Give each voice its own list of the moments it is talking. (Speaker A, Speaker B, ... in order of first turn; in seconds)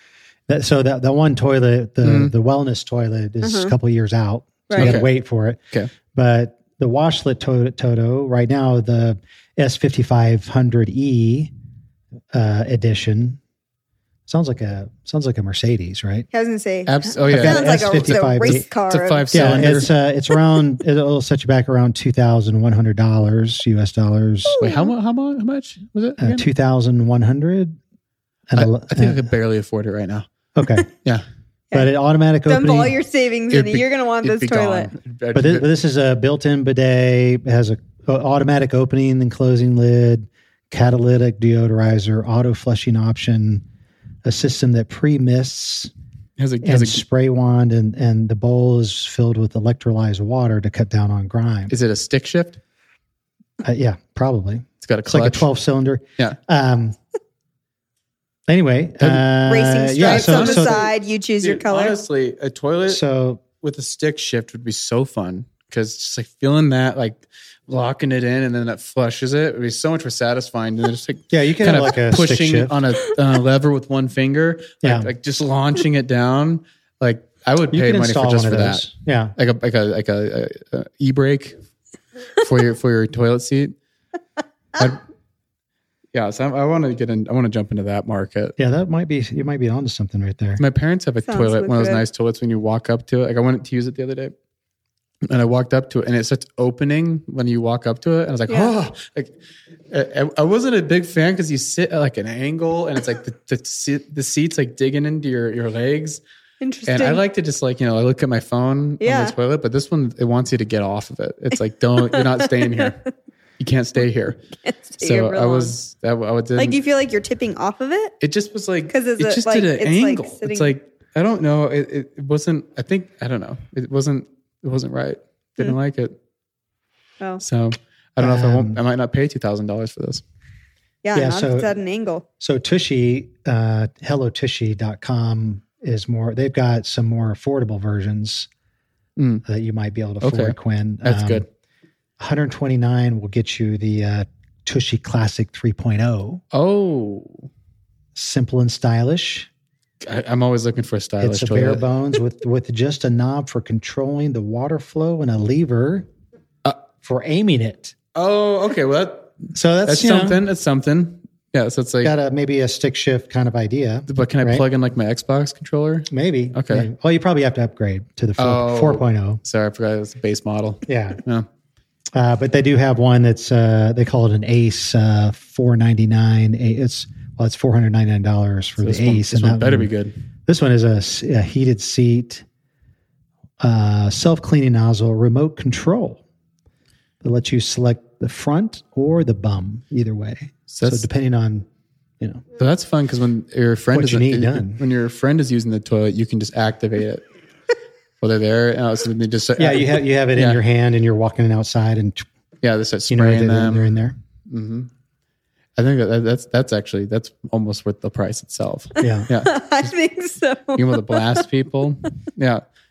Speaker A: 0.5-5.6, 6.1-11.5, 12.3-13.4, 14.3-16.3, 17.3-18.6, 19.3-24.6, 26.2-27.8, 28.5-29.2, 30.6-30.9, 31.7-33.0, 35.3-43.6, 44.2-45.9, 46.6-51.7, 53.6-57.0, 58.5-60.9, 62.9-63.4, 71.3-72.7, 74.8-75.1, 77.7-79.3, 88.6-90.6, 128.2-128.8, 131.1-131.7, 132.4-138.5, 139.4-141.4, 142.2-146.4, 148.1-149.5, 151.2-156.1, 156.8-157.9, 159.5-160.4, 162.0-164.6, 166.1-169.4, 170.8-171.2, 172.1-179.9, 180.5-182.4, 183.6-186.2, 187.2-191.7, 193.9-194.8, 199.6-202.2, 203.1-204.2, 209.0-209.3
Speaker B: 2.0-2.3, 4.8-5.1, 16.9-19.9, 24.6-26.4, 28.5-30.3, 33.5-35.7, 46.4-47.0, 51.7-52.6, 54.8-55.5, 60.0-63.0, 63.6-81.5, 82.4-83.7, 84.8-85.0, 86.1-88.5, 90.6-94.3, 95.2-99.3, 99.9-106.2, 106.8-113.0, 113.6-114.4, 115.0-116.8, 118.2-126.2, 127.4-130.2, 139.2-139.4, 140.2-141.4, 146.5-147.5, 150.0-151.8, 158.1-162.1, 164.1-166.9, 168.4-171.5, 178.8-180.1, 190.7-191.1, 192.6-197.2, 198.2-200.6, 202.6-204.9, 205.8-209.7, 210.7-212.6
Speaker C: 3.4-3.7, 4.7-5.0, 16.3-19.8, 24.4-24.9, 32.5-34.9, 59.5-62.0, 91.3-92.0, 106.6-107.2, 109.0-109.3, 112.2-112.9, 114.6-115.7, 116.6-118.1, 118.9-120.7, 131.0-132.2, 209.0-211.4